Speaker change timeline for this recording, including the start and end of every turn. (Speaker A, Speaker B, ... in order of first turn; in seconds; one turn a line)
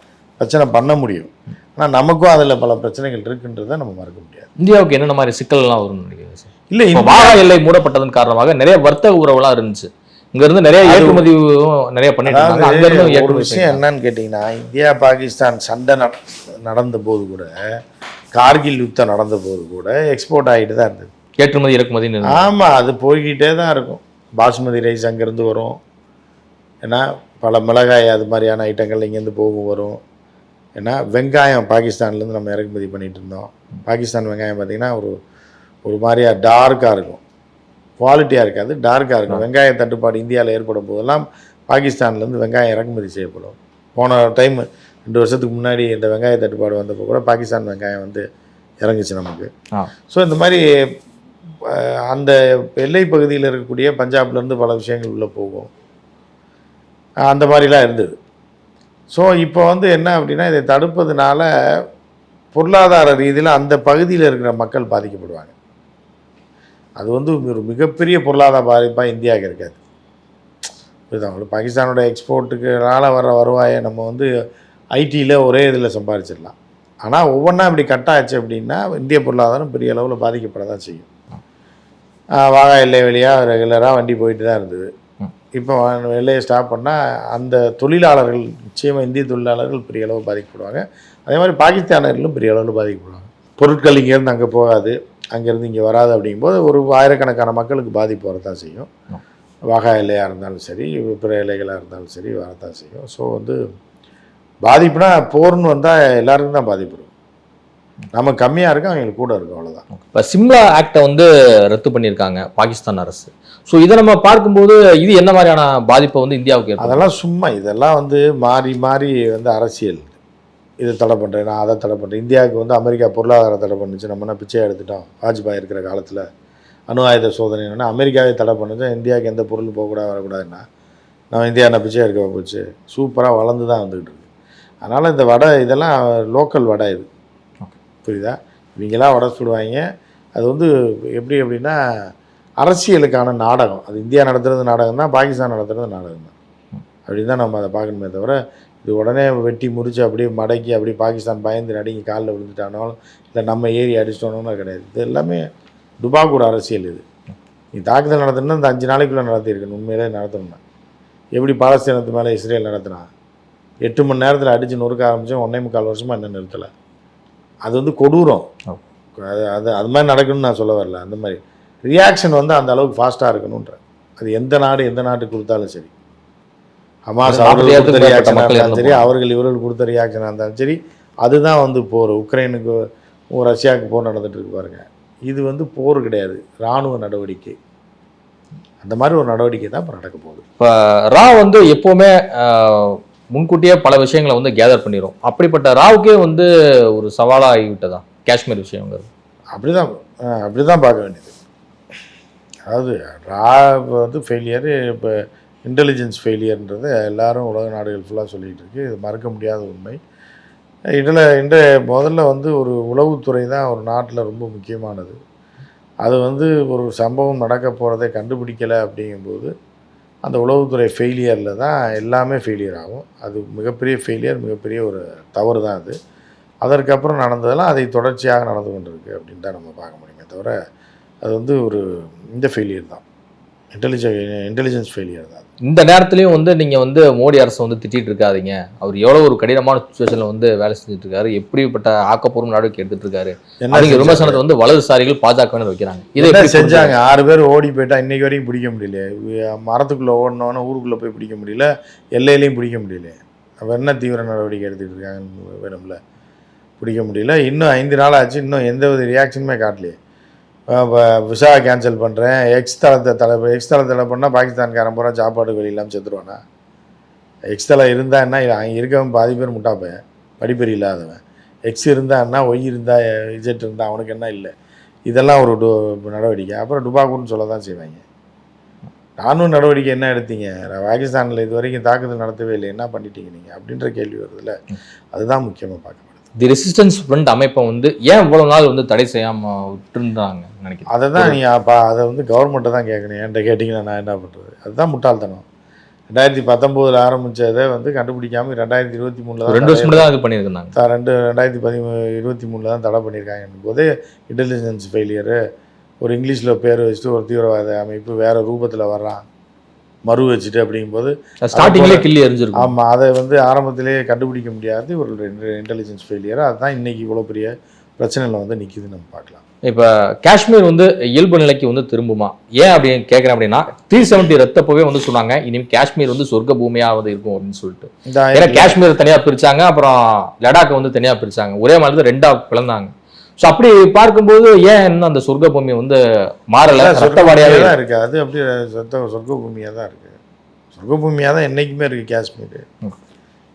Speaker A: 0.4-4.5
Speaker B: 4.6-13.8
Speaker A: 6.7-7.4
Speaker A: 10.8-11.2
Speaker A: 12.3-17.6
Speaker A: 18.4-21.1
Speaker B: 21.4-22.5
Speaker A: 22.3-25.8
Speaker A: 26.8-30.0
Speaker A: 30.8-35.2
Speaker A: 35.9-37.2
Speaker A: 38.0-48.2
Speaker A: 48.8-49.5
Speaker A: 50.1-50.6
Speaker A: 51.7-55.7
Speaker A: 57.3-58.1
Speaker A: 59.1-61.5
Speaker A: 62.5-65.5
Speaker A: 67.0-69.8
Speaker A: 71.1-74.3
Speaker A: 75.0-81.1
Speaker A: 82.4-84.9
Speaker A: 85.5-98.9
Speaker A: 99.7-103.6
Speaker A: 104.7-107.1
Speaker A: 108.1-109.8
Speaker B: 110.0-117.1
Speaker A: 116.8-120.2
Speaker A: 120.8-126.2
Speaker A: 126.9-130.6
Speaker A: 131.3-134.2
Speaker A: 134.8-137.1
Speaker A: 138.0-139.8
Speaker A: 140.4-141.8
Speaker A: 142.6-146.3
Speaker A: 147.1-155.4
Speaker A: 156.0-157.1
Speaker A: 157.8-160.6
Speaker A: 161.3-163.1
Speaker A: 163.8-166.7
Speaker A: 167.7-168.5
Speaker A: 169.2-175.9
Speaker A: 177.1-182.8
Speaker B: 177.2-179.1
Speaker A: 183.3-187.6
Speaker A: 188.8-190.4
Speaker B: 190.6-199.1
Speaker A: 199.6-201.3
Speaker A: 202.7-210.0
Speaker A: 211.0-215.2
Speaker A: 216.0-219.5
Speaker A: 220.2-226.0
Speaker A: 226.6-230.6
Speaker A: 231.2-231.8
Speaker A: 232.3-233.0
Speaker A: 233.7-235.5
Speaker B: 235.6-246.9
Speaker A: 243.6-244.4
Speaker A: 246.2-256.0
Speaker A: 256.8-260.0
Speaker A: 260.7-266.4
Speaker A: 267.5-274.5
Speaker A: 275.1-278.0
Speaker A: 279.2-284.5
Speaker A: 285.1-286.1
Speaker B: 286.4-291.4
Speaker A: 290.9-295.4
Speaker A: 296.1-300.1
Speaker B: 299.5-300.8
Speaker A: 300.7-305.4
Speaker A: 306.0-309.2
Speaker A: 310.1-312.0
Speaker B: 311.4-312.7
Speaker A: 312.6-319.4
Speaker B: 319.6-336.0
Speaker A: 328.1-328.8
Speaker B: 336.5-337.8
Speaker A: 336.8-340.2
Speaker A: 340.8-342.6